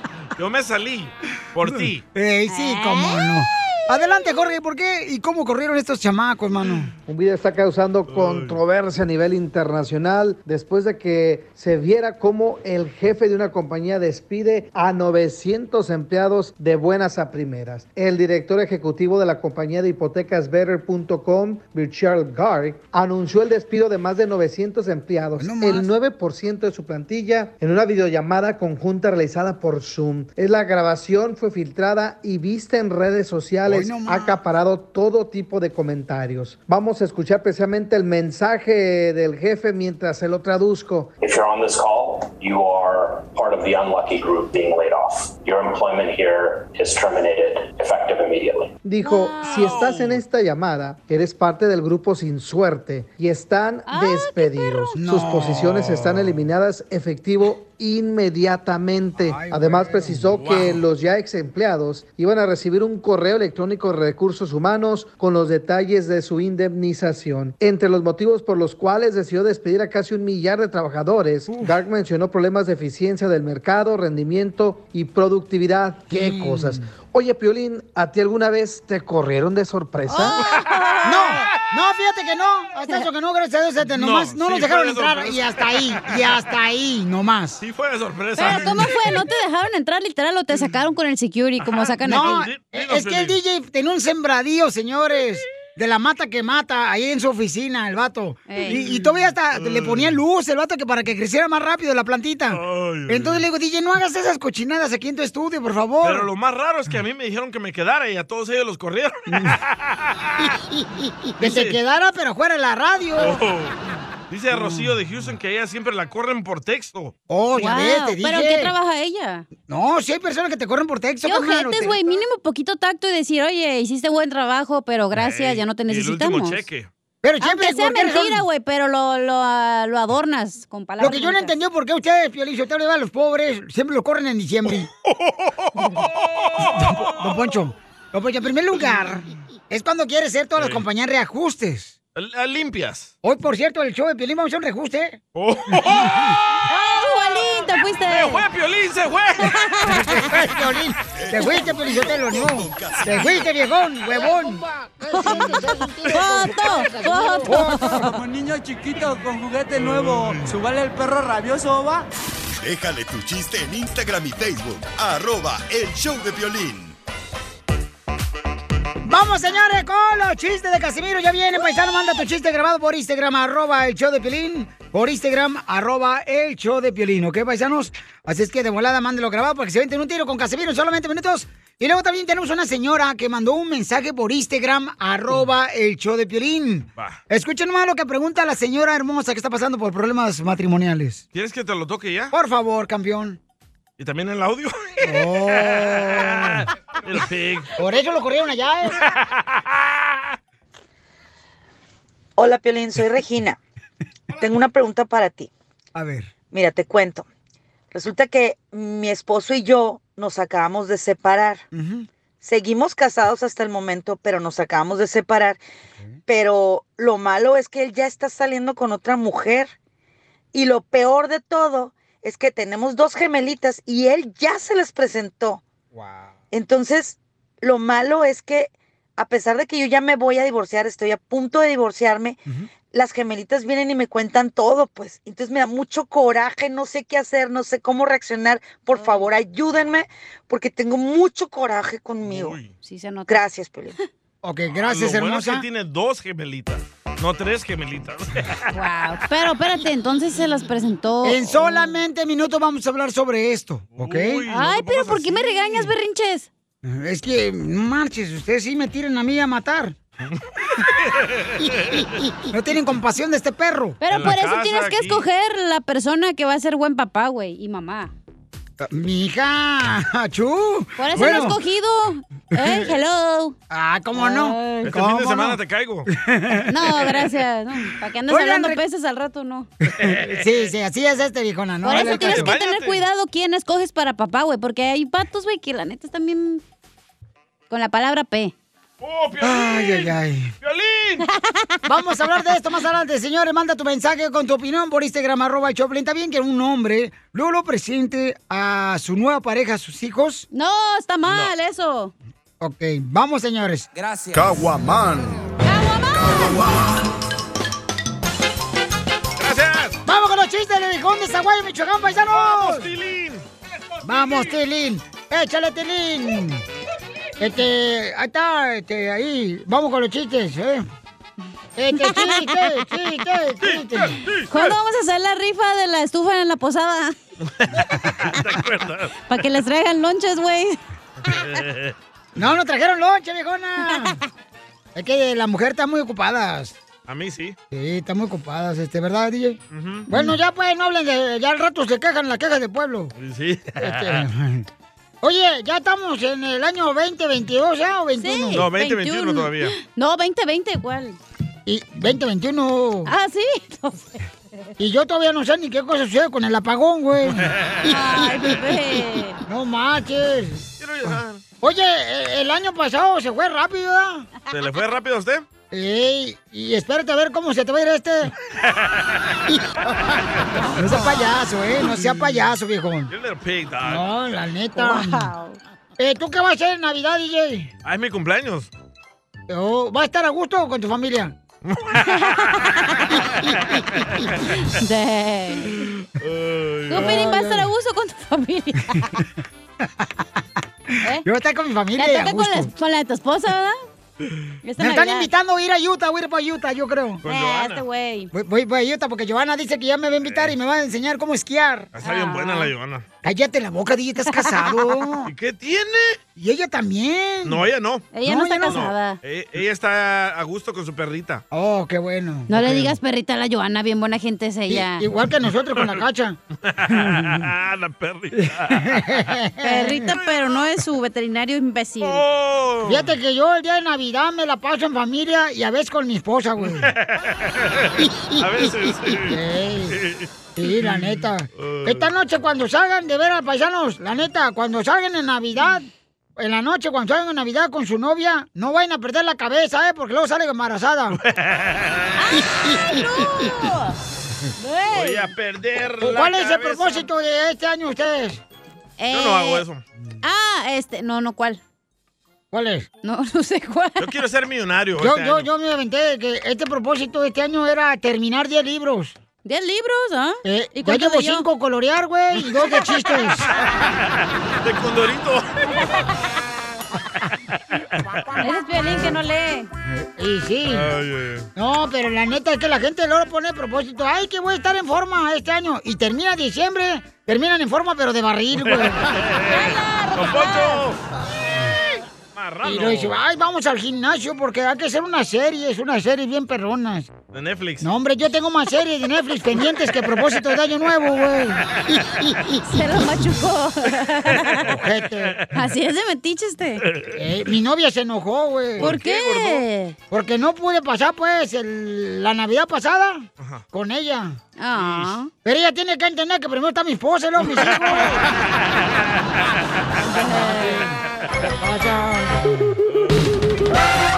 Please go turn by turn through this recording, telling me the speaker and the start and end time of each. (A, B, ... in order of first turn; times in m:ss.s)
0:00.4-0:02.0 A
0:02.1-0:06.9 B
0:02.5-0:04.3 C
0:07.0-0:41.1 D
0:08.1-0:08.6 A
0:25.4-0:25.9 B
0:33.7-0:34.4 B
0:41.2-0:48.8 E
0:48.8-1:20.4 D
0:49.0-0:49.9 C
0:49.5-0:50.2 A
0:53.9-0:55.0 C
0:55.0-0:56.2 B
0:59.2-1:00.5 B
1:00.4-1:00.7 A
1:16.1-1:16.8 B
1:20.1-1:21.5 C
1:21.0-1:27.6 B
1:23.9-1:26.2 A
1:27.6-1:28.9 A
1:28.4-1:32.4 C
1:31.6-1:33.4 A
1:32.0-1:46.3 B
1:38.5-1:38.9 C
1:39.5-1:40.2 A
1:42.5-1:43.4 A
1:46.0-1:50.5 A
1:49.3-1:49.6 B
1:51.4-1:53.4 B
1:51.4-1:51.8 A
1:53.2-1:53.8 A
1:54.3-1:57.1 A
1:54.5-1:54.9 B
1:57.3-1:58.7 B
1:57.5-1:59.4 C
1:59.7-2:02.0 B
2:01.2-2:06.6 C
2:05.1-2:06.9 A
2:07.2-2:08.4 B
2:07.4-2:11.5 C
2:11.0-2:14.9 B
2:15.0-2:17.2 A
2:16.7-2:21.9 B
2:20.6-2:20.8 A
2:22.2-2:23.1 A
2:23.2-2:25.2 B
2:25.3-2:26.6 A
2:25.8-2:26.3 B
2:26.7-2:28.4 C
2:28.1-2:29.6 A
2:29.4-2:30.2 C
2:29.9-2:34.6 B
2:31.1-2:33.5 F
2:35.1-2:38.2 C
2:35.3-2:35.6 B
2:37.4-2:38.1 B
2:38.0-2:42.0 G
2:39.8-2:40.4 A
2:42.6-2:47.0 F
2:49.0-3:11.2 B
3:11.3-3:12.3 A
3:12.3-3:13.4 B
3:14.0-3:17.7 A
3:15.0-3:16.7 B
3:17.8-3:19.0 B
3:19.0-3:20.2 A
3:22.4-3:23.6 H
3:24.4-3:25.5 H
3:25.9-3:26.3 B
3:26.5-3:27.2 H
3:27.9-3:31.6 H
3:31.7-3:32.1 B
3:32.4-3:35.6 H
3:36.3-3:39.7 H
3:40.5-3:45.6 H
3:46.5-3:52.4 H
3:52.9-4:02.6 H
3:58.9-3:59.3 C
4:02.2-4:02.7 A
4:02.8-4:03.4 C
4:03.3-4:03.9 H
4:04.4-4:05.6 B
4:04.7-4:08.7 A
4:08.7-4:11.8 C
4:11.2-4:14.4 B
4:14.0-4:15.9 A
4:14.5-4:16.5 C
4:16.8-4:20.0 B
4:21.0-4:22.1 A
4:22.5-4:24.0 B
4:24.0-4:28.1 C
4:24.1-4:25.2 A
4:28.8-4:31.6 B
4:31.0-4:33.6 C
4:32.6-4:32.9 B
4:33.7-4:35.6 B
4:34.1-4:34.9 C
4:34.8-4:36.1 A
4:36.1-4:37.1 B
4:36.7-4:39.7 C
4:38.3-4:38.8 B
4:39.8-4:42.5 B
4:40.0-4:40.7 A
4:41.8-4:46.6 C
4:41.9-4:43.0 A
4:47.7-4:48.5 C
4:49.0-4:51.3 A
4:49.4-4:50.5 B
4:51.4-4:51.8 C
4:51.8-5:00.5 B
5:00.5-5:02.1 C
5:01.2-5:01.5 A
5:02.6-5:03.9 B
5:04.4-5:05.2 F
5:05.6-5:06.6 C
5:09.4-5:10.0 A
5:10.0-5:12.9 B
5:12.3-5:13.4 A
5:14.0-5:16.6 B
5:17.4-5:20.8 B
5:21.8-5:24.2 B
5:22.0-5:22.5 C
5:23.6-5:24.7 A
5:24.5-5:27.1 C
5:27.4-5:29.1 A
5:29.3-5:30.8 C
5:31.3-5:31.9 A
5:32.4-5:34.2 B
5:34.9-5:36.8 B
5:37.1-5:37.6 A
5:37.7-5:43.1 B
5:39.7-5:40.1 A
5:43.2-5:44.2 A
5:43.8-5:44.6 B
5:45.2-5:48.6 B
5:48.2-5:51.2 C
5:48.5-5:49.7 A
5:51.6-5:53.1 B
5:53.0-5:54.2 C
5:54.8-5:57.9 B
5:57.3-5:57.9 A
5:57.8-5:59.4 C
5:59.4-6:04.3 B
6:00.8-6:01.4 A
6:04.5-6:05.4 A
6:05.7-6:08.3 B
6:08.6-6:09.4 A
6:10.8-6:13.1 B
6:13.1-6:14.0 A
6:13.8-6:15.3 B
6:14.8-6:15.4 C
6:16.0-6:17.7 B
6:17.8-6:18.7 A
6:19.5-6:21.3 B
6:21.6-6:22.7 A
6:22.0-6:23.1 C
6:23.4-6:24.3 A
6:24.5-6:25.8 C
6:25.7-6:27.2 A
6:26.9-6:29.1 C
6:26.9-6:27.7 B
6:29.8-6:30.2 B
6:31.2-6:32.7 B
6:32.0-6:33.8 C
6:34.6-6:35.3 C
6:34.8-6:37.2 B
6:37.2-6:37.8 A
6:37.2-6:38.3 C
6:38.3-6:41.9 B
6:40.2-6:40.6 A
6:41.9-6:43.0 A
6:42.0-6:42.7 C
6:43.2-6:45.3 B
6:45.2-6:46.2 A
6:46.4-6:47.6 B
6:47.4-6:48.1 A
6:48.1-6:49.2 C
6:48.2-6:48.9 B
6:48.7-6:51.4 A
6:51.5-6:52.9 B
6:52.5-6:55.0 C
6:54.7-6:56.4 B
6:55.7-6:56.0 A
6:56.6-6:59.3 A
6:56.9-6:57.4 B
6:58.7-7:00.0 B
6:59.6-7:02.2 C
7:00.1-7:00.6 A
7:02.0-7:03.1 A
7:02.8-7:06.9 B
7:06.6-7:09.4 A
7:09.3-7:10.0 B
7:09.9-7:12.1 A
7:10.6-7:21.2 B
7:21.1-7:22.3 A
7:22.2-7:23.9 C
7:22.6-7:23.0 B
7:24.6-7:25.3 C
7:24.9-7:27.0 A
7:26.0-7:28.4 B
7:29.0-7:29.6 C
7:29.1-7:29.8 A
7:30.2-7:31.6 C
7:32.5-7:32.9 B
7:33.0-7:34.1 C
7:34.0-7:35.5 A
7:35.0-7:39.2 B
7:39.4-7:41.4 C
7:40.4-7:43.5 B
7:43.6-7:46.1 A
7:48.4-7:49.7 C
7:49.9-7:50.9 B
7:50.7-7:51.5 A
7:51.6-7:59.1 B
7:58.5-8:01.0 A
7:59.5-8:00.8 C
8:02.3-8:03.2 A
8:02.6-8:07.1 B
8:07.3-8:07.8 A
8:07.8-8:12.6 B
8:12.6-8:14.6 C
8:14.5-8:15.5 A
8:14.6-8:15.4 B
8:15.5-8:16.8 C
8:17.1-8:19.0 B
8:18.8-8:19.6 A
8:18.8-8:20.0 C
8:20.1-8:24.4 B
8:23.4-8:23.6 A
8:24.6-8:25.3 C
8:24.7-8:25.1 A
8:25.4-8:28.3 B
8:27.4-8:29.4 A
8:30.0-8:31.0 B
8:30.1-8:30.8 C
8:31.6-8:32.8 B
8:32.9-8:33.3 A